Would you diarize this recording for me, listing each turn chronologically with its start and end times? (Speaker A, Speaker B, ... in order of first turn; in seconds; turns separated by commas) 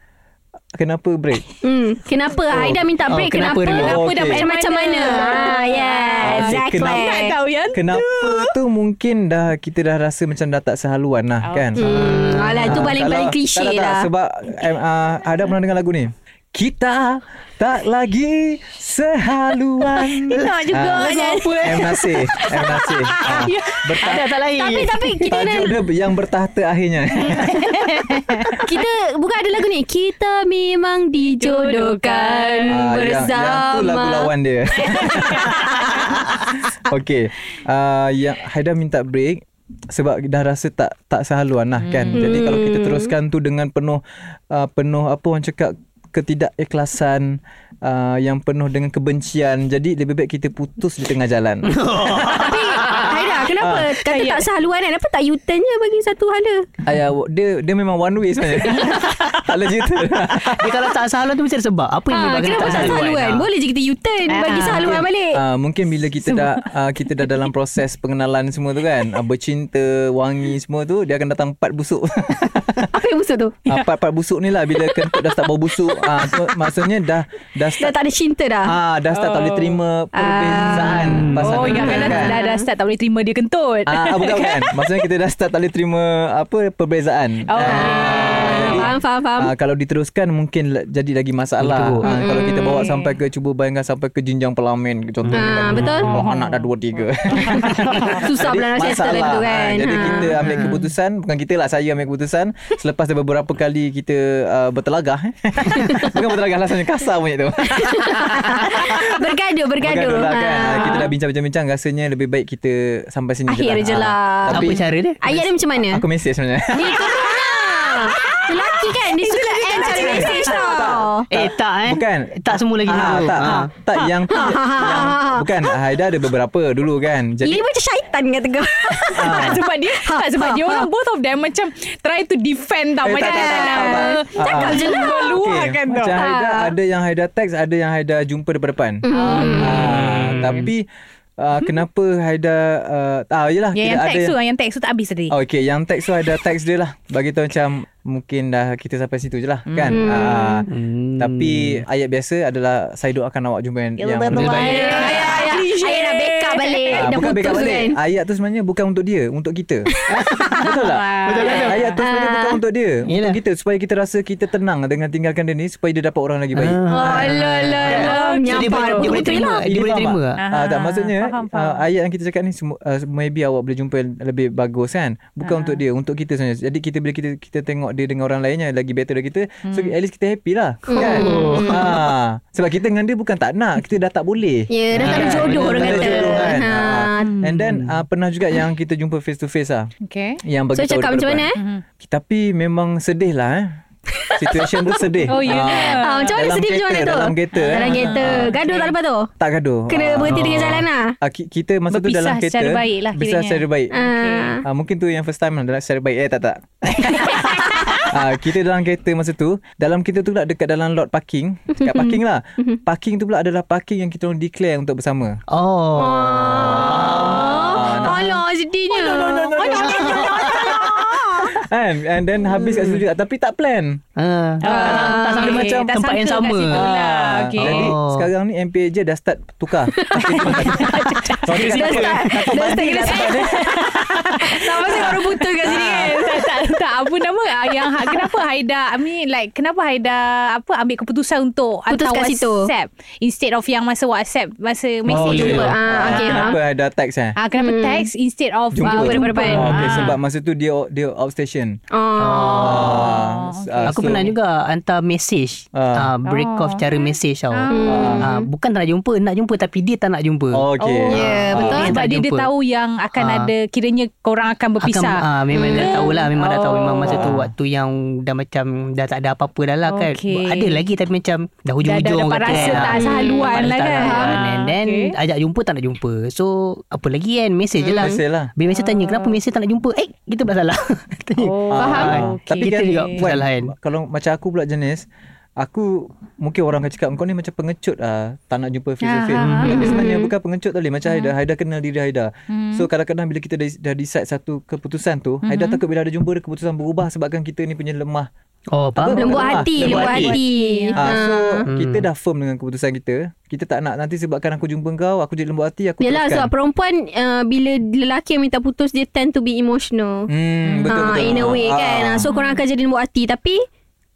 Speaker A: 0.8-1.4, Speaker B: 1.6-7.3, Speaker A: 2.5-2.8, Speaker C: 3.0-4.0, Speaker D: 3.7-8.6, Speaker A: 3.8-4.5, Speaker A: 6.2-7.1, Speaker A: 7.7-11.9, Speaker D: 11.4-11.7, Speaker B: 11.8-14.1, Speaker C: 11.8-12.9, Speaker A: 12.6-24.2, Speaker D: 20.1-23.9, Speaker C: 20.3-20.6, Speaker B: 20.9-22.1, Speaker C: 24.0-25.1, Speaker B: 24.6-25.8, Speaker A: 25.3-27.9, Speaker D: 27.2-28.6, Speaker B: 28.6-34.3, Speaker D: 31.2-32.8, Speaker A: 32.7-52.5, Speaker D: 34.8-36.1, Speaker B: 34.9-35.9, Speaker D: 41.8-42.3, Speaker B: 42.1-43.1, Speaker C: 51.7-52.6, Speaker B: 52.3-56.7, Speaker D: 52.8-53.3, Speaker A: 53.5-53.9, Speaker D: 54.0-54.5, Speaker A: 56.8-60.8, Speaker B: 58.6-59.1, Speaker C: 60.5-63.5, Speaker B: 62.1-65.4, Speaker A: 62.5-63.0, Speaker D: 64.3-65.0, Speaker C: 64.5-65.0, Speaker A: 64.6-72.9, Speaker D: 66.3-66.7, Speaker B: 72.9-73.6, Speaker A: 73.7-77.9, Speaker B: 77.8-78.7, Speaker A: 78.7-82.3, Speaker D: 79.1-79.8, Speaker B: 80.1-82.7, Speaker C: 80.8-81.4, Speaker D: 81.3-85.0, Speaker A: 83.9-109.2, Speaker D: 87.5-88.8, Speaker B: 87.6-89.5, Speaker C: 91.6-92.1, Speaker B: 92.0-92.9, Speaker D: 92.4-93.2, Speaker C: 95.3-96.3, Speaker B: 95.3-96.2, Speaker D: 96.2-96.5, Speaker D: 97.3-97.8, Speaker B: 97.5-100.4, Speaker C: 100.0-100.9, Speaker B: 105.7-106.2, Speaker B: 107.6-111.1, Speaker A: 109.8-117.1, Speaker B: 113.5-116.0, Speaker C: 114.5-115.2, Speaker B: 116.7-121.3, Speaker D: 117.0-118.5, Speaker D: 119.0-120.9, Speaker A: 119.8-127.6, Speaker C: 121.3-123.7, Speaker B: 124.3-125.7, Speaker B: 127.4-130.8, Speaker D: 129.1-136.2, Speaker A: 129.1-129.6, Speaker A: 133.0-140.9, Speaker B: 133.2-135.4, Speaker B: 136.2-136.7, Speaker B: 139.0-139.8, Speaker D: 139.1-140.0, Speaker C: 139.8-140.7, Speaker A: 141.4-144.3, Speaker D: 143.7-145.3, Speaker A: 145.3-155.2, Speaker B: 149.9-150.7, Speaker C: 150.7-151.8, Speaker C: 154.0-155.4, Speaker D: 154.3-157.1, Speaker B: 154.3-158.0, Speaker A: 156.9-159.9, Speaker B: 160.0-160.6, Speaker C: 160.1-160.6, Speaker A: 160.6-168.1, Speaker D: 160.6-162.0, Speaker C: 161.2-161.9, Speaker B: 161.5-162.6, Speaker C: 163.1-163.4, Speaker C: 166.5-170.4, Speaker B: 166.9-169.6, Speaker D: 167.8-169.3, Speaker A: 169.2-189.9, Speaker D: 170.4-171.8, Speaker D: 175.4-175.8, Speaker D: 179.6-179.9, Speaker B: 180.9-182.0, Speaker C: 181.0-182.0, Speaker B: 184.7-187.3, Speaker C: 184.9-186.6, Speaker C: 187.2-188.0, Speaker D: 190.0-190.4, Speaker A: 190.4-191.5, Speaker B: 190.7-191.6, Speaker D: 191.6-191.8, Speaker A: 192.0-193.8, Speaker B: 194.2-199.3, Speaker A: 194.3-198.5, Speaker D: 195.3-196.3, Speaker D: 197.6-198.9, Speaker A: 199.4-203.9, Speaker B: 199.9-201.2, Speaker C: 200.3-200.8, Speaker D: 201.9-204.6, Speaker B: 203.9-204.6, Speaker A: 204.6-215.4, Speaker B: 207.5-208.0, Speaker B: 211.7-212.8, Speaker C: 215.5-218.3, Speaker B: 215.9-221.6, Speaker A: 216.4-224.0, Speaker D: 219.6-220.8, Speaker C: 220.1-220.5, Speaker B: 222.5-223.0, Speaker C: 224.2-226.9, Speaker D: 224.6-227.9, Speaker A: 224.7-226.0, Speaker B: 224.7-225.5, Speaker A: 226.7-233.9, Speaker C: 227.6-228.3, Speaker B: 229.9-231.0, Speaker D: 230.3-231.6, Speaker C: 230.5-230.9, Speaker C: 231.5-232.6, Speaker B: 231.6-236.6, Speaker D: 232.9-246.4, Speaker A: 234.9-236.3, Speaker B: 237.7-238.3, Speaker B: 241.9-242.7, Speaker A: 245.1-247.3, Speaker C: 245.1-245.7, Speaker B: 245.2-246.6, Speaker D: 247.4-250.1, Speaker B: 247.6-248.1, Speaker A: 248.7-251.8, Speaker B: 248.8-249.7, Speaker C: 249.5-250.1, Speaker B: 251.9-253.0, Speaker C: 252.2-253.1, Speaker A: 252.6-254.3, Speaker D: 252.8-254.3, Speaker C: 253.8-260.6, Speaker A: 255.7-256.1, Speaker D: 256.2-257.8, Speaker B: 257.7-258.5, Speaker A: 257.9-258.3, Speaker A: 260.5-261.9, Speaker D: 260.8-267.4, Speaker B: 261.1-262.0, Speaker C: 261.2-262.5, Speaker C: 263.2-263.5, Speaker C: 264.8-283.7, Speaker B: 265.5-266.2, Speaker A: 267.1-267.5, Speaker D: 269.9-270.8, Speaker D: 271.8-275.1, Speaker A: 272.5-273.0, Speaker B: 272.9-274.4, Speaker B: 277.8-278.2, Speaker A: 277.9-278.5, Speaker D: 278.7-279.4, Speaker D: 281.4-283.3, Speaker A: 281.7-285.1, Speaker B: 281.8-282.1, Speaker A: 285.6-298.3, Speaker D: 289.0-290.2, Speaker C: 289.4-290.0, Speaker B: 289.6-290.2, Speaker D: 291.0-291.3, Speaker D: 292.5-292.9, Speaker D: 295.4-295.8, Speaker C: 298.7-300.3, Speaker A: 298.9-300.3, Speaker B: 299.1-301.7, Speaker D: 299.7-301.1, Speaker A: 300.9-306.5, Speaker C: 301.7-302.0, Speaker B: 306.0-310.3, Speaker A: 310.3-312.3, Speaker D: 310.6-311.1, Speaker B: 310.9-313.6, Speaker D: 312.3-312.6